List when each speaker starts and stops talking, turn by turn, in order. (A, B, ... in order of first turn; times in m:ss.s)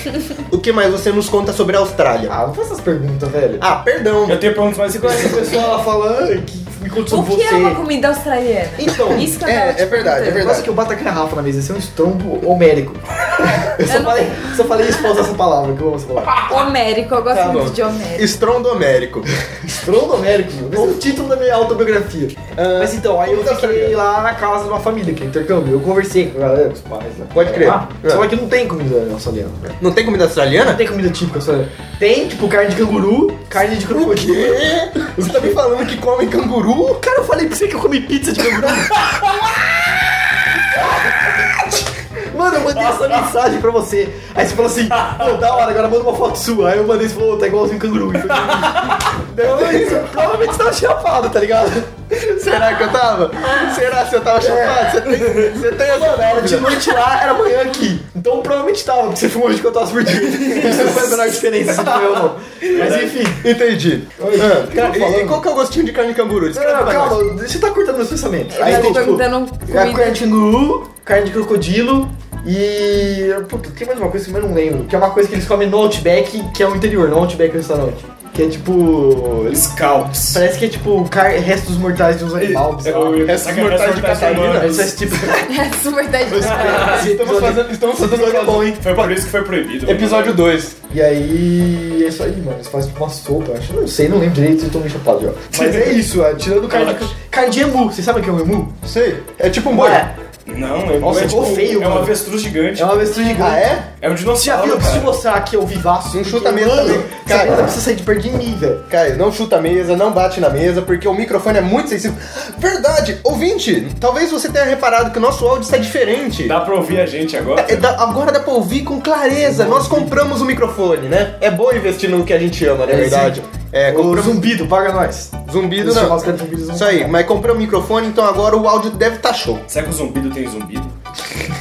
0:00.5-0:02.4 A
0:02.3-0:03.6 B
0:03.6-0:04.4 A
0:04.2-0:05.7 C
0:04.9-0:07.8 B
0:07.1-0:10.5 D
0:08.8-0:09.4 B
0:09.4-0:10.7 A
0:10.2-0:16.4 B
0:13.8-0:15.1 D
0:16.5-0:18.3 D
0:17.3-0:19.3 A
0:19.7-0:29.8 B
0:22.6-0:24.0 A
0:27.3-0:28.2 A
0:29.8-0:30.8 A
0:30.6-0:35.6 B
0:33.9-0:37.0 A
0:37.0-0:39.1 B
0:40.7-0:41.4 B
0:42.2-0:52.2 B
0:44.9-0:45.5 C
0:48.3-0:49.1 C
0:49.3-0:50.2 A
0:52.2-0:56.9 A
0:54.4-0:55.1 B
0:55.8-1:03.5 B
1:00.3-1:00.9 C
1:00.5-1:01.2 A
1:02.7-1:03.2 C
1:02.8-1:07.2 A
1:04.2-1:05.4 B
1:06.5-1:19.6 B
1:08.5-1:10.2 D
1:08.6-1:09.0 A
1:19.5-1:20.4 C
1:20.3-1:23.4 B
1:22.4-1:25.2 C
1:23.2-1:24.9 A
1:24.5-1:25.5 B
1:25.4-1:27.0 D
1:26.3-1:29.2 B
1:26.4-1:27.1 C
1:26.7-1:28.8 A
1:28.8-1:30.4 C
1:29.8-1:30.8 A
1:30.9-1:38.8 B
1:35.5-1:36.0 C
1:36.7-1:37.1 C
1:38.8-1:40.1 A
1:39.7-1:40.1 B
1:40.5-1:43.0 C
1:41.0-1:42.2 B
1:42.8-1:43.8 B
1:43.3-1:43.9 A
1:44.0-1:45.2 C
1:44.4-1:48.8 B
1:46.1-1:47.7 A
1:48.9-1:56.6 A
1:56.4-1:57.8 C
1:57.6-2:04.5 A
1:59.4-2:00.3 B
2:02.9-2:07.1 B
2:05.5-2:09.7 A
2:09.7-2:10.9 C